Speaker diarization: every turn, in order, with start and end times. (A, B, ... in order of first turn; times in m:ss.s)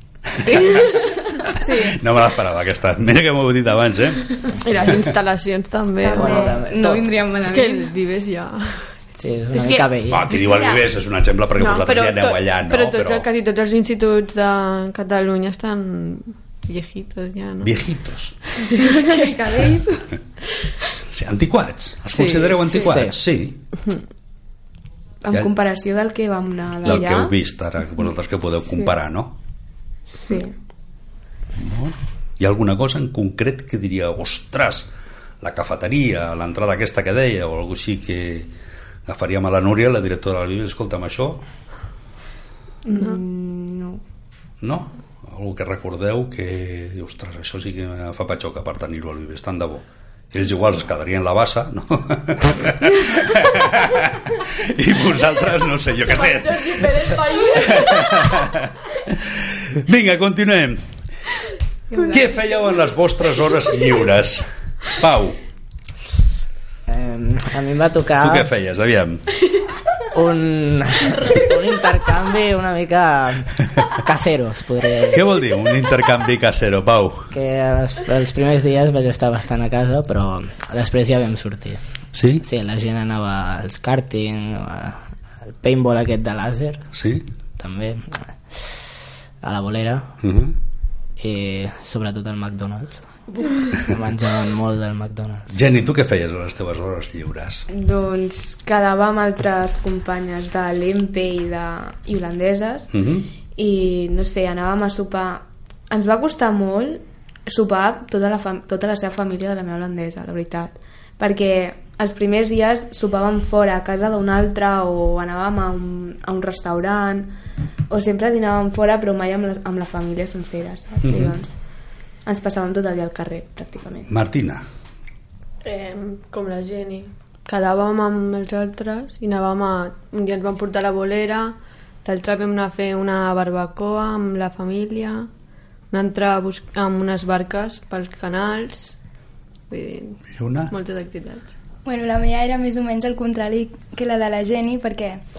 0:00.4-0:00.9 A
0:00.4-0:01.9 B
0:01.6-0:04.4 A
0:01.6-0:01.9 C
0:04.6-0:06.6 D
0:04.7-0:05.0 B
0:06.0-0:07.9 B
0:06.1-0:07.2 E
0:07.4-0:09.0 D
0:09.2-0:10.3 E
0:09.5-0:10.8 B
0:10.1-0:13.3 A
0:11.6-0:17.8 D
0:17.6-0:18.4 A
0:18.5-0:20.7 D
0:18.6-0:19.8 B
0:21.1-0:23.6 A
0:22.1-0:22.8 D
0:22.7-0:23.2 E
0:25.2-0:27.3 B
0:26.8-0:29.3 A
0:28.6-0:28.9 B
0:30.1-0:30.5 B
0:31.6-0:34.9 A
0:35.4-0:38.5 A
0:39.0-0:41.4 A
0:42.8-0:44.0 B
0:44.6-1:00.8 A
0:56.0-0:58.5 D
1:01.9-1:02.3 B
1:02.0-1:05.4 A
1:06.9-1:08.5 E
1:08.2-1:09.2 A
1:10.1-1:15.2 E
1:15.1-1:17.3 A
1:17.3-1:21.8 E
1:22.1-1:22.4 A
1:22.4-1:26.8 E
1:26.9-1:27.2 A
1:27.6-1:28.9 E
1:29.4-1:30.1 E
1:30.2-1:30.5 A
1:31.2-1:33.1 E
1:33.7-1:35.5 E
1:35.5-1:37.7 A
1:37.7-1:42.9 B
1:42.9-1:43.3 A
1:43.5-1:57.3 B
1:57.9-2:01.5 B
2:01.0-2:01.4 A
2:02.2-2:04.1 B
2:04.1-2:04.6 A
2:05.6-2:15.3 D
2:15.9-2:19.0 D
2:19.7-2:21.5 D
2:20.3-2:20.7 A
2:21.8-2:25.2 C